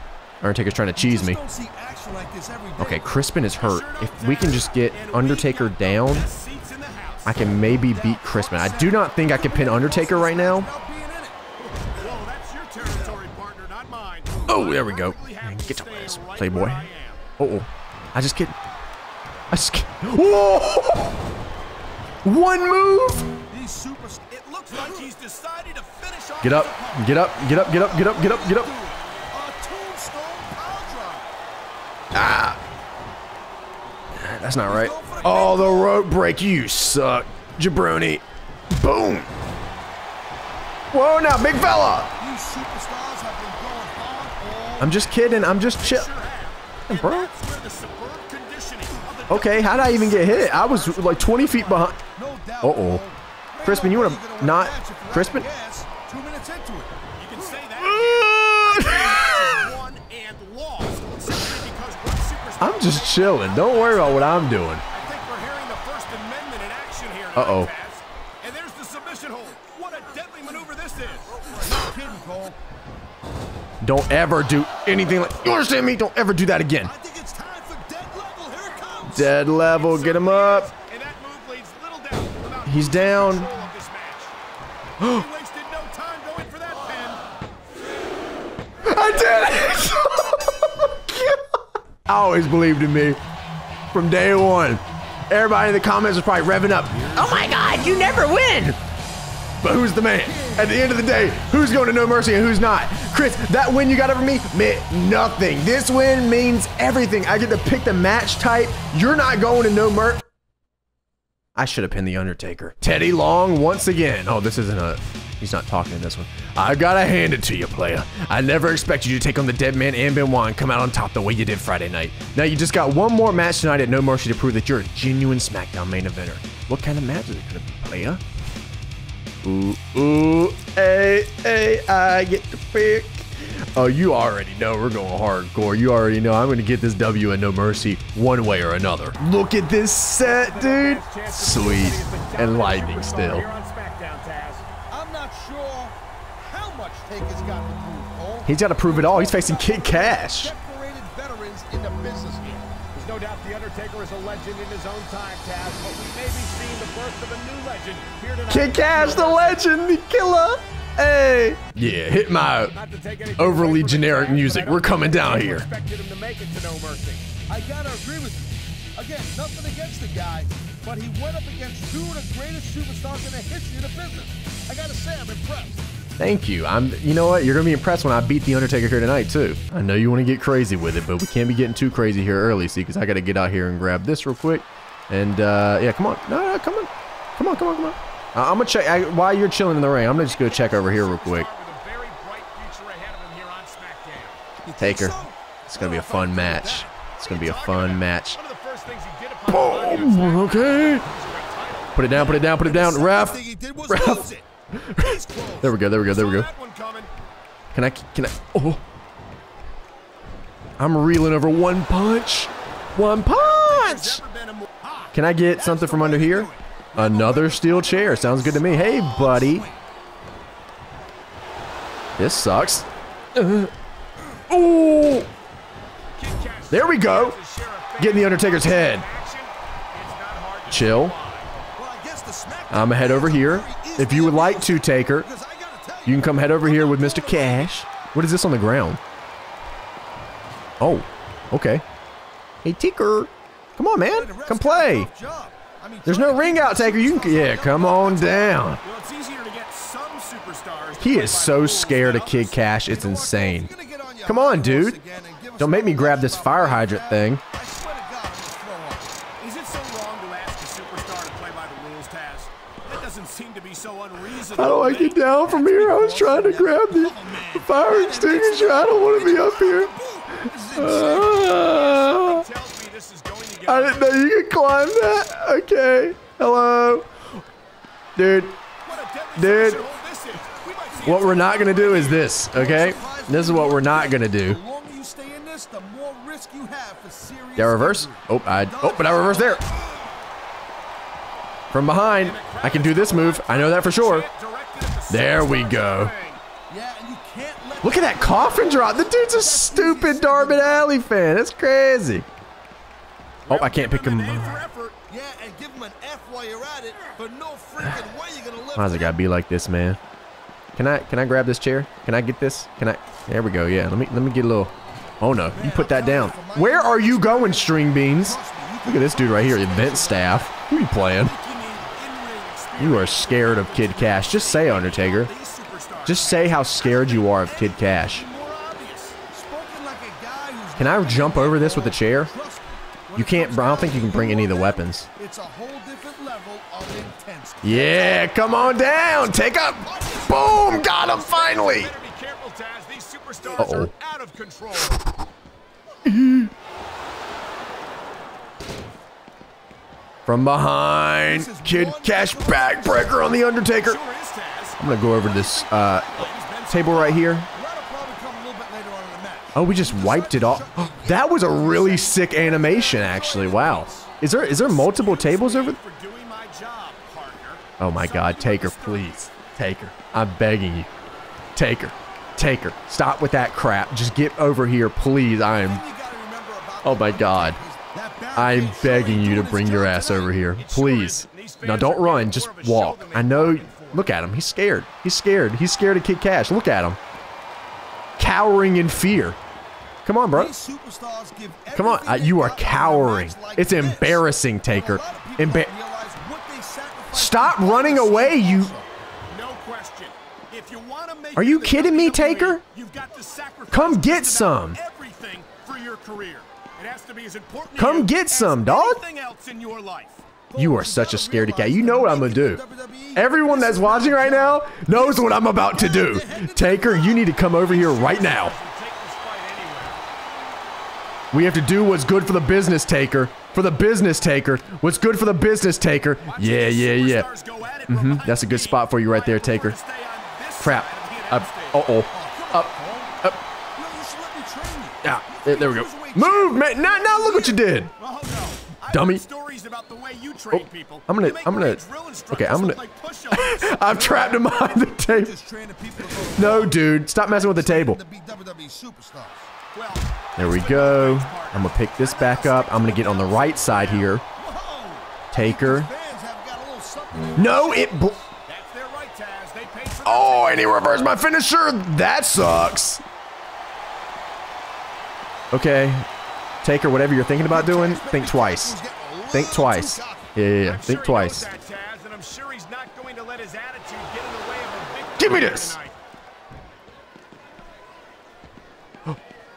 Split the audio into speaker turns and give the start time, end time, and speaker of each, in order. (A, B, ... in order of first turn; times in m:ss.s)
0:00.4-0:01.4 A
0:01.0-0:03.2 B
0:02.8-0:06.3 A
0:03.6-0:07.4 C
0:07.2-0:10.7 A
0:07.7-0:11.4 B
0:11.8-0:17.2 C
0:14.5-0:16.9 A
0:17.4-0:18.6 A
0:19.5-0:21.2 A
0:22.2-0:23.3 A
0:23.5-0:25.1 B
0:24.4-0:27.2 C
0:26.4-0:28.7 A
0:27.0-0:31.3 B
0:32.1-0:32.6 A
0:34.2-0:38.2 A
0:34.6-0:36.1 B
0:38.8-0:39.3 A
0:40.9-0:42.1 A
0:42.2-0:45.1 B
0:44.8-0:46.1 A
0:45.5-0:51.9 C
0:46.9-0:47.3 A
0:49.3-0:52.0 A
0:52.0-0:57.5 B
0:52.6-0:53.0 A
0:53.6-0:55.5 A
0:57.2-1:11.6 C
0:57.8-0:59.7 A
1:02.6-1:04.8 A
1:07.4-1:07.7 A
1:11.4-1:12.6 B
1:13.8-1:16.9 A
1:16.8-1:19.3 B
1:19.1-1:20.7 A
1:19.5-1:24.4 C
1:22.7-1:23.5 A
1:25.0-1:27.2 C
1:28.8-1:33.2 A
1:33.9-1:38.8 A
1:37.0-1:38.4 B
1:39.6-1:50.3 A
1:40.1-1:41.9 B
1:51.6-2:08.2 A
2:09.4-2:23.5 A
2:20.2-2:24.7 C
2:24.9-2:32.5 B
2:28.4-2:30.5 A
2:32.4-2:39.7 C
2:38.5-2:42.7 A
2:42.7-2:47.3 C
2:43.4-2:45.7 A
2:47.5-2:55.8 B
2:56.2-3:11.5 A
3:10.2-3:14.4 C
3:14.6-3:16.9 B
3:14.8-3:18.4 A
3:17.2-3:22.1 C
3:19.5-3:21.1 A
3:22.0-3:26.5 A
3:22.1-3:25.8 B
3:26.1-3:27.1 C
3:27.7-3:28.8 A
3:30.8-3:34.2 A
3:33.3-3:34.8 C
3:34.8-3:39.8 B
3:35.1-3:39.7 A
3:42.2-3:43.7 A
3:44.5-3:45.3 A
3:46.2-3:51.6 C
3:46.7-3:47.4 A
3:48.0-3:49.1 A
3:50.7-3:51.2 A
3:51.8-3:57.8 B
3:52.7-3:55.3 A
3:56.0-3:59.0 A
4:00.8-4:01.8 A
4:02.6-4:05.1 A
4:04.0-4:08.8 B
4:06.1-4:08.8 A
4:08.8-4:12.7 C
4:11.0-4:13.7 A
4:12.9-4:19.2 B
4:14.2-4:15.0 A
4:15.6-4:17.4 A
4:19.4-4:25.4 C
4:24.6-4:29.9 A
4:25.4-4:31.7 B
4:30.8-4:32.4 A
4:31.1-4:34.2 C
4:33.7-4:37.1 A
4:38.2-4:38.6 A
4:38.8-4:42.4 C
4:39.4-4:39.8 A
4:41.0-4:44.6 A
4:42.5-4:50.1 B
4:47.6-4:49.6 A
4:51.7-4:54.3 A
4:52.2-4:56.4 C
4:55.1-4:56.1 A
4:56.7-5:00.9 B
4:57.8-5:02.3 A
5:03.5-5:05.0 C
5:03.5-5:04.7 A
5:05.1-5:09.2 B
5:08.8-5:10.0 A
5:10.8-5:21.3 A
5:15.5-5:20.5 B
5:21.0-5:29.2 C
5:22.8-5:25.3 A
5:26.0-5:28.2 A
5:27.7-5:28.5 B
5:29.3-5:41.0 B
5:30.8-5:32.3 A
5:33.1-5:35.1 A
5:37.6-5:41.9 A
5:40.9-5:45.0 C
5:43.6-5:43.9 A
5:46.1-5:46.5 A
5:50.3-5:54.0 A
5:51.3-5:53.4 B
5:53.8-5:57.4 C
5:54.8-5:57.5 A
5:57.5-6:03.7 B
5:59.6-6:05.8 A
6:02.4-6:09.3 C
6:07.8-6:10.9 A
6:11.6-6:15.8 A
6:15.6-6:20.3 B
6:16.8-6:17.6 A
6:18.4-6:27.0 A
6:20.6-6:24.0 C
6:28.2-6:29.4 A
6:30.0-6:30.5 A
6:30.3-6:38.9 B
6:31.8-6:35.7 A
6:37.1-6:38.7 A
6:39.3-6:50.2 C
6:41.4-6:42.6 A
6:43.7-6:44.8 A
6:47.8-6:49.0 A
6:50.5-6:57.4 B
6:50.6-6:52.6 A
6:53.1-6:58.6 A
6:57.6-7:00.0 C
7:01.3-7:07.3 A
7:06.2-7:11.9 C
7:07.9-7:09.8 A
7:10.6-7:13.4 A
7:12.1-7:13.2 B
7:13.7-7:17.6 B
7:15.0-7:17.9 A
7:18.0-7:24.1 C
7:18.9-7:19.2 A
7:20.5-7:22.8 A
7:23.3-7:25.3 A
7:23.9-7:29.5 B
7:26.3-7:28.0 A
7:29.7-7:34.2 C
7:30.4-7:34.2 A
7:34.3-7:38.2 B
7:35.3-7:35.9 A
7:37.4-7:38.2 A
7:38.5-7:41.1 C
7:40.0-7:43.0 A
7:45.5-7:46.1 A
7:46.6-7:51.5 A
7:47.4-7:50.3 B
7:50.6-7:56.0 C
7:55.2-7:55.8 A